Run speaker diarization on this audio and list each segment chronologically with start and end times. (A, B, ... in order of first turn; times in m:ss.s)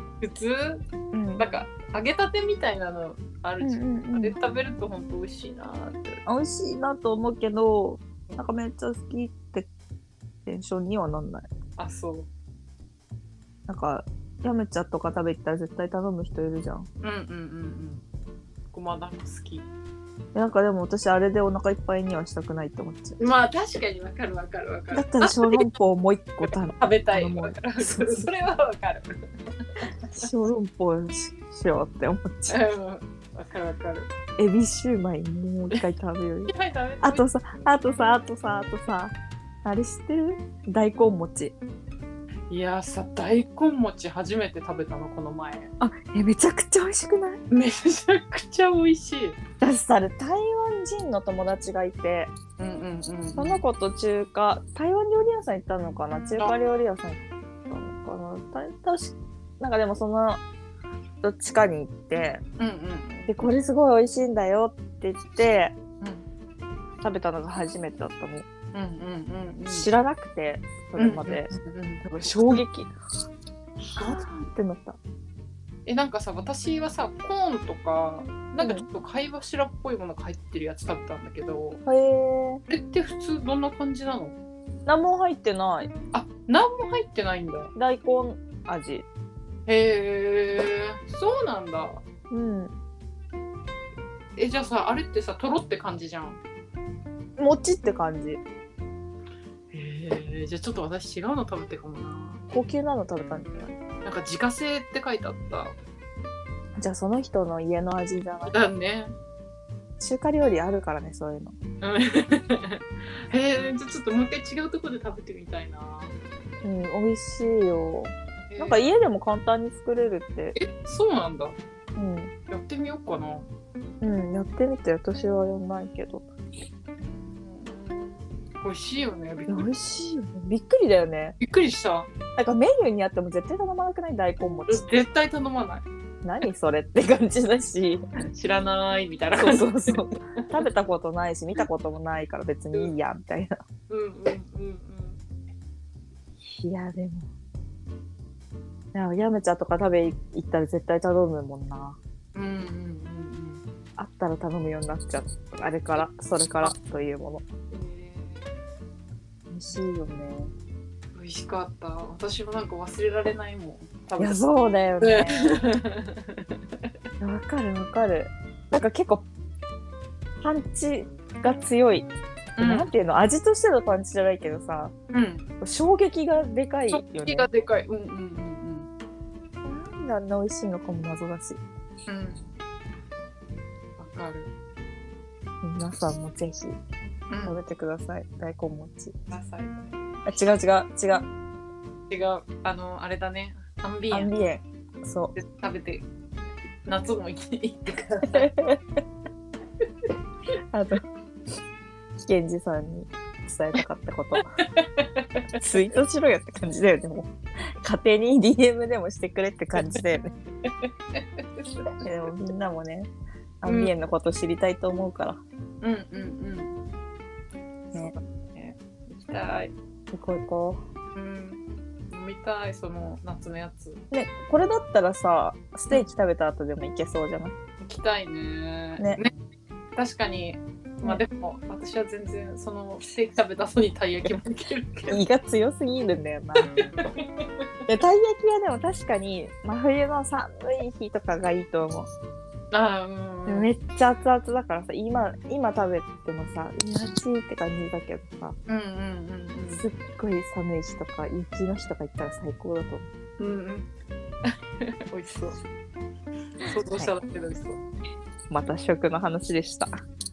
0:00.2-0:00.8 A
0:01.1-0:01.6 B
0:01.4-0:06.2 A
0:03.6-0:04.4 B
0:06.2-0:09.7 B
0:10.4-0:11.5 B
0:11.8-0:12.3 A
0:13.7-0:16.9 B
0:17.0-0:18.0 A
0:18.7-0:19.7 A
0:20.3-0:23.2 B
0:23.2-0:25.7 A
0:24.9-0:28.3 B
0:26.4-0:29.1 A
0:30.1-0:32.6 B
0:32.5-0:34.1 A
0:34.4-0:41.6 B
0:36.5-0:37.3 A
0:42.5-0:45.7 A
0:45.8-0:47.4 B
0:47.5-0:49.4 A
0:49.6-0:52.3 B
0:52.6-0:53.6 A
0:53.4-1:00.4 B
1:01.2-1:02.4 B
1:02.6-1:03.4 A
1:03.3-1:05.8 B
1:07.0-1:08.4 B
1:08.7-1:09.9 A
1:09.7-1:12.9 B
1:11.0-1:12.6 A
1:13.9-1:14.3 A
1:13.9-1:15.0 B
1:15.8-1:21.8 A
1:18.6-1:18.9 B
1:21.8-1:22.6 B
1:22.7-1:24.4 A
1:24.8-1:25.9 B
1:26.1-1:27.7 A
1:27.7-1:29.0 B
1:29.7-1:32.0 A
1:32.3-1:32.7 B
1:34.4-1:36.4 A
1:37.4-1:38.4 B
1:39.7-1:42.4 A
1:42.5-1:43.7 B
1:44.0-1:45.8 A
1:46.8-1:48.6 B
1:48.5-1:49.1 A
1:50.0-1:51.5 B
1:51.8-1:56.1 A
1:56.6-2:00.6 B
1:58.5-1:58.8 A
2:00.5-2:01.6 A
2:02.0-2:02.3 B
2:02.5-2:03.5 A
2:04.0-2:06.3 B
2:07.0-2:09.7 A
2:09.5-2:11.4 B
2:11.4-2:12.1 A
2:12.3-2:14.8 B
2:14.7-2:15.8 A
2:16.2-2:18.0 B
2:18.3-2:20.0 A
2:19.4-2:23.6 B
2:23.9-2:25.2 A
2:26.4-2:27.3 B
2:28.9-2:32.0 B
2:32.3-2:33.6 A
2:34.0-2:37.4 B
2:37.7-2:38.6 A
2:39.5-2:40.5 B
2:41.1-2:44.4 A
2:44.2-2:45.5 B
2:45.0-2:46.5 A
2:47.2-2:49.2 B
2:50.4-2:54.9 B
2:52.6-2:52.9 A
2:55.1-2:55.4 A
2:55.6-2:57.5 B
2:56.9-2:58.9 A
2:59.6-3:01.6 B
3:02.1-3:02.4 A
3:04.0-3:04.5 A
3:05.6-3:06.8 B
3:07.3-3:07.6 A
3:07.4-3:09.2 B
3:09.3-3:09.8 A
3:10.2-3:11.3 B
3:12.1-3:14.3 A
3:14.1-3:15.4 B
3:15.4-3:16.0 A
3:16.8-3:18.5 A
3:18.3-3:18.8 B
3:20.7-3:21.0 B
3:22.2-3:24.4 B
3:24.8-3:25.4 A
3:25.6-3:30.3 B
3:30.6-3:31.9 A
3:32.0-3:33.1 B
3:33.6-3:35.4 B
3:33.6-3:33.9 A
3:35.8-3:36.8 A
3:37.9-3:39.7 A
3:40.1-3:40.8 B
3:41.1-3:44.0 A
3:44.1-3:47.6 B
3:47.8-3:49.3 A
3:50.0-3:55.2 A
3:55.1-3:56.9 B
3:56.7-3:57.4 A
3:57.9-4:02.1 B
4:02.7-4:03.7 A
4:03.4-4:08.6 B
4:08.7-4:09.8 A
4:09.7-4:13.1 B
4:13.4-4:13.9 A
4:14.4-4:15.6 A
4:16.6-4:17.8 A
4:18.5-4:19.9 B